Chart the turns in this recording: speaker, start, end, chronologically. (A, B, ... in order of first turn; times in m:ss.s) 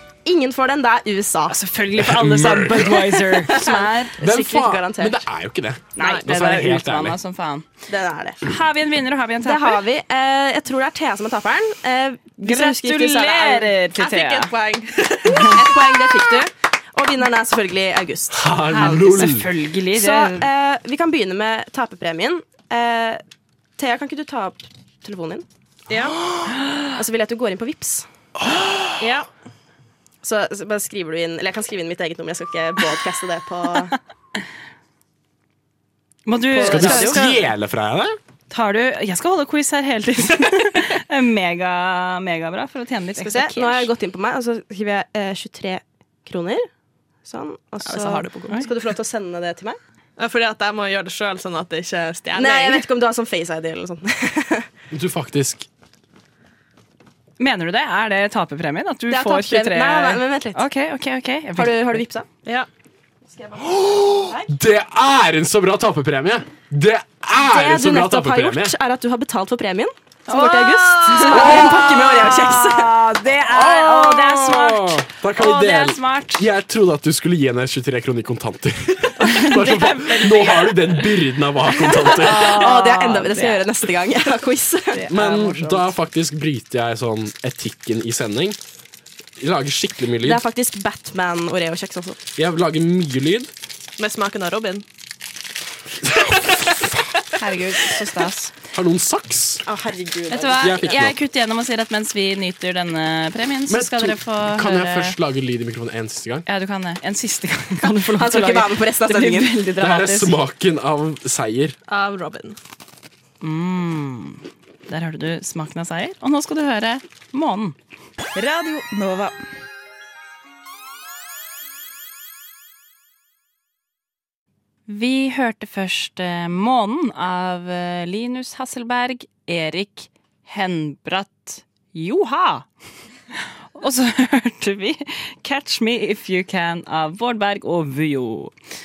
0:00.2-0:01.6 A
0:01.5-0:04.2 B
0:01.9-0:03.3 C
0:03.5-0:05.2 A
0:04.2-0:07.2 C
0:06.0-0:07.6 B
0:06.0-0:06.3 D
0:07.9-0:08.4 A
0:08.4-0:09.8 B
0:09.4-0:13.7 A
0:12.4-0:14.5 B
0:14.0-0:16.1 D
0:15.3-0:19.2 A
0:18.3-0:19.5 C
0:18.7-0:20.5 B
0:19.9-0:23.2 A
0:23.8-0:25.4 A
0:25.9-0:26.2 D
0:26.9-0:28.1 A
0:28.4-0:29.0 C
0:30.2-0:34.0 A
0:36.2-0:37.4 B
0:36.5-0:37.3 A
0:36.6-0:38.2 C
0:38.5-0:43.9 B
0:43.2-0:46.7 A
0:47.2-0:49.8 A
0:47.8-0:48.6 D
0:50.2-0:52.9 D
0:52.3-0:54.7 A
0:54.9-0:55.7 C
0:57.4-1:02.0 B
0:59.1-1:00.6 A
1:01.6-1:02.3 A
1:03.3-1:04.5 A
1:03.8-1:08.7 C
1:07.4-1:13.0 A
1:10.3-1:16.5 B
1:11.3-1:12.3 C
1:13.4-1:22.6 C
1:19.2-1:21.1 B
1:21.7-1:25.0 A
1:22.0-1:23.6 B
1:24.9-1:25.9 B
1:25.1-1:28.6 C
1:29.4-1:30.4 C
1:30.2-1:32.2 A
1:32.4-1:33.5 C
1:34.0-1:34.8 D
1:36.0-1:37.0 C
1:37.3-1:38.5 B
1:38.7-1:39.6 C
1:39.6-1:41.0 A
1:40.3-1:45.2 B
1:40.6-1:41.2 C
1:43.7-1:46.4 C
1:46.5-1:50.3 B
1:47.9-1:49.6 A
1:49.8-1:51.8 C
1:51.9-1:52.6 D
1:53.4-1:57.8 B
1:58.4-1:59.3 B
2:04.9-2:12.7 B
2:13.7-2:18.5 B